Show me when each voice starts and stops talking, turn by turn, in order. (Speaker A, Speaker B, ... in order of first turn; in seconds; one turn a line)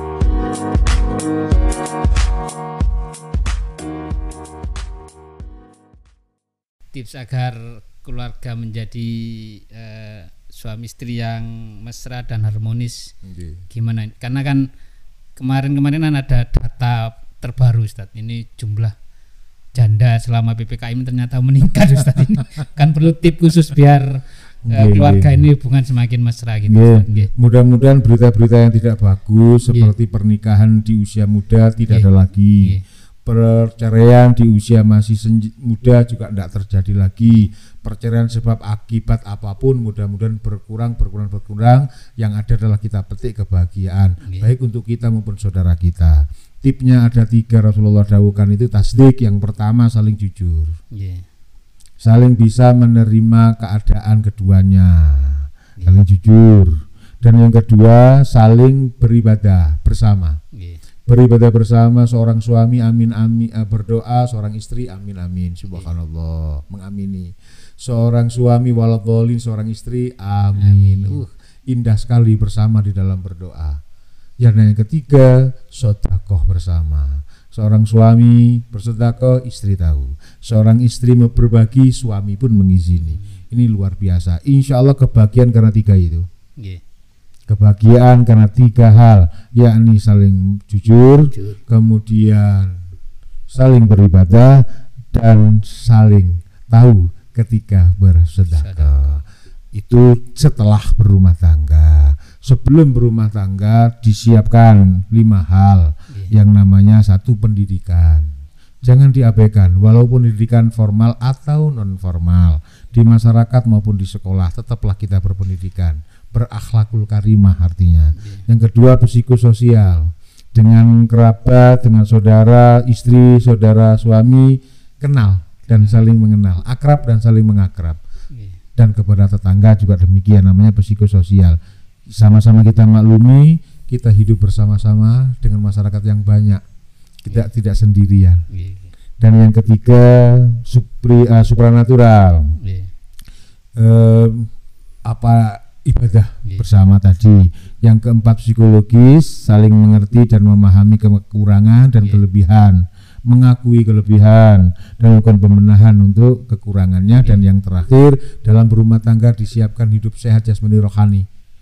Speaker A: 6.9-13.2
Speaker B: 13.2-13.7
Speaker A: 13.7-14.7
Speaker A: 15.3-18.9
Speaker A: 19.7-27.3
Speaker B: 24.7-25.5
Speaker B: 26.6-50.7
Speaker A: 29.7-29.9
Speaker A: 31.9-32.8
Speaker A: 44.2-44.5
Speaker A: 50.9-51.2
Speaker B: 52.0-56.7
Speaker A: 55.8-56.1
Speaker B: 57.2-60.4
Speaker A: 60.5-60.8
Speaker B: 61.1-73.8
Speaker A: 65.7-66.0
Speaker A: 70.6-71.2
Speaker B: 74.4-86.3
Speaker A: 83.0-83.4
Speaker B: 87.5-92.8
Speaker A: 91.3-91.6
Speaker B: 93.5-108.3
Speaker A: 98.5-98.9
Speaker B: 108.8-128.0
Speaker A: 118.2-118.4
Speaker A: 125.7-126.1
Speaker A: 128.3-128.6
Speaker B: 128.8-131.6
Speaker B: 132.1-136.6
Speaker B: 137.2-138.4
Speaker A: 138.5-138.9
Speaker B: 139.2-142.6
Speaker A: 142.6-142.9
Speaker B: 143.8-144.5
Speaker B: 145.1-161.2
Speaker A: 157.2-157.4